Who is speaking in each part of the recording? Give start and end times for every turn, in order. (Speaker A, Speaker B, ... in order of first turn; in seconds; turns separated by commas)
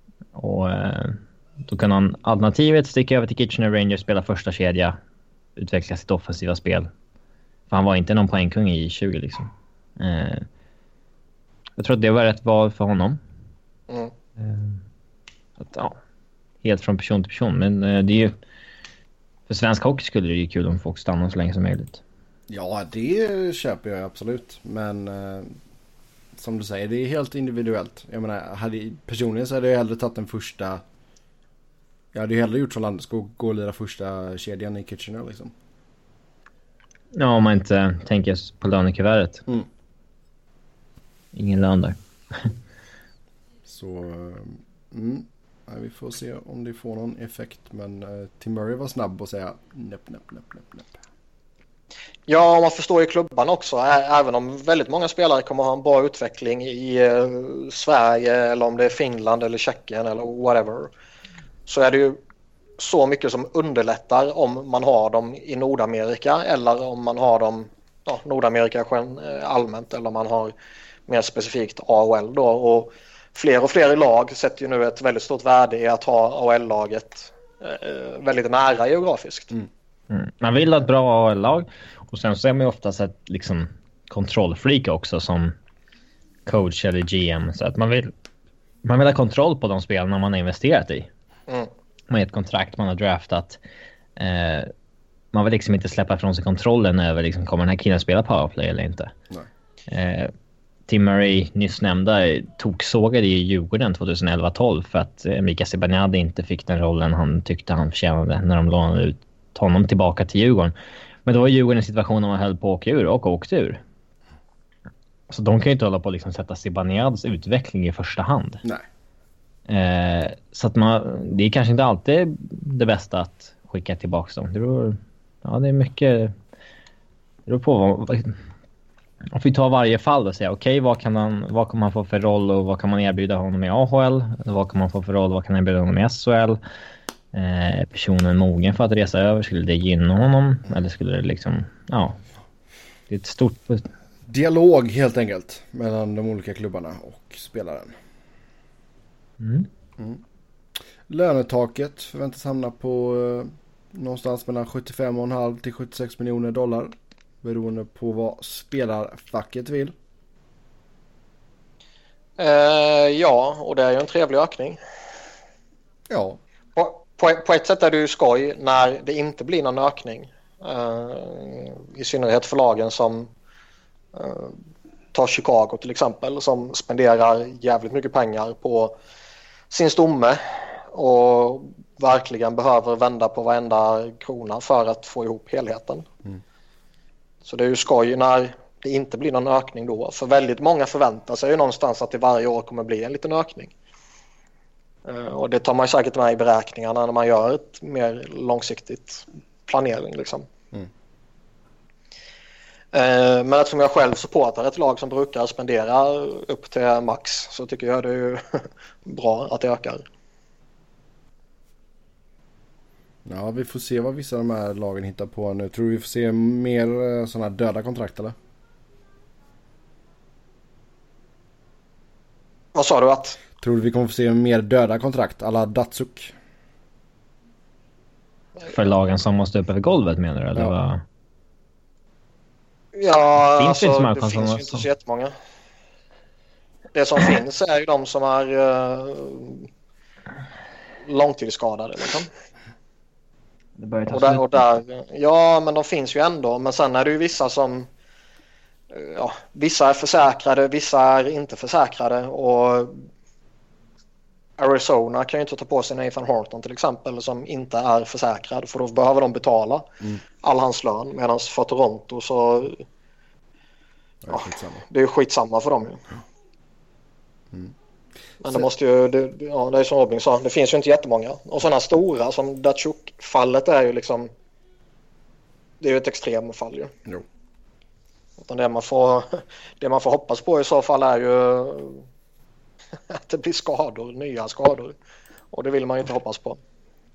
Speaker A: 0.3-5.0, Speaker A: 5.5-6.9, Speaker A: 7.7-10.5, Speaker A: 11.8-13.2, Speaker A: 14.4-14.8, Speaker A: 15.6-16.0, Speaker A: 16.6-18.3, Speaker A: 19.5-22.0, Speaker B: 22.5-25.5, Speaker B: 26.4-30.8, Speaker B: 32.1-35.5, Speaker A: 37.1-39.4, Speaker A: 41.3-42.5, Speaker B: 43.7-50.9, Speaker C: 52.3-60.9, Speaker C: 61.7-62.2, Speaker C: 62.8-70.5, Speaker C: 71.1-79.5, Speaker A: 80.1-85.5, Speaker A: 86.5-88.1, Speaker A: 88.8-91.1, Speaker A: 92.1-93.6, Speaker A: 94.2-94.7, Speaker A: 95.3-99.1, Speaker A: 99.9-100.3, Speaker A: 100.9-113.8, Speaker A: 115.3-118.6, Speaker A: 119.7-126.3, Speaker A: 127.5-128.4, Speaker A: 129.3-136.6, Speaker A: 137.3-142.2, Speaker A: 143.1-143.8, Speaker B: 144.3-147.9, Speaker A: 149.4-149.7, Speaker B: 151.1-159.9, Speaker C: 162.4-164.8, Speaker B: 166.1-166.4, Speaker C: 166.8-173.3, Speaker C: 174.1-174.6, Speaker C: 175.1-179.0, Speaker C: 179.7-186.1, Speaker C: 187.4-193.7, Speaker C: 195.0-200.5, Speaker C: 202.9-210.0, Speaker B: 213.2-218.3, Speaker C: 222.7-223.4, Speaker B: 223.6-226.3, Speaker A: 228.7-231.0, Speaker C: 232.9-235.3, Speaker A: 233.6-234.8, Speaker C: 236.9-239.7, Speaker C: 241.1-242.3, Speaker A: 243.8-244.6, Speaker C: 244.1-247.9, Speaker C: 248.9-253.0, Speaker C: 254.6-259.9, Speaker C: 260.4-262.8, Speaker B: 264.2-264.8, Speaker C: 264.3-266.0, Speaker C: 268.4-274.3, Speaker C: 275.8-276.9, Speaker C: 278.4-282.0, Speaker C: 283.1-284.9, Speaker C: 285.5-286.6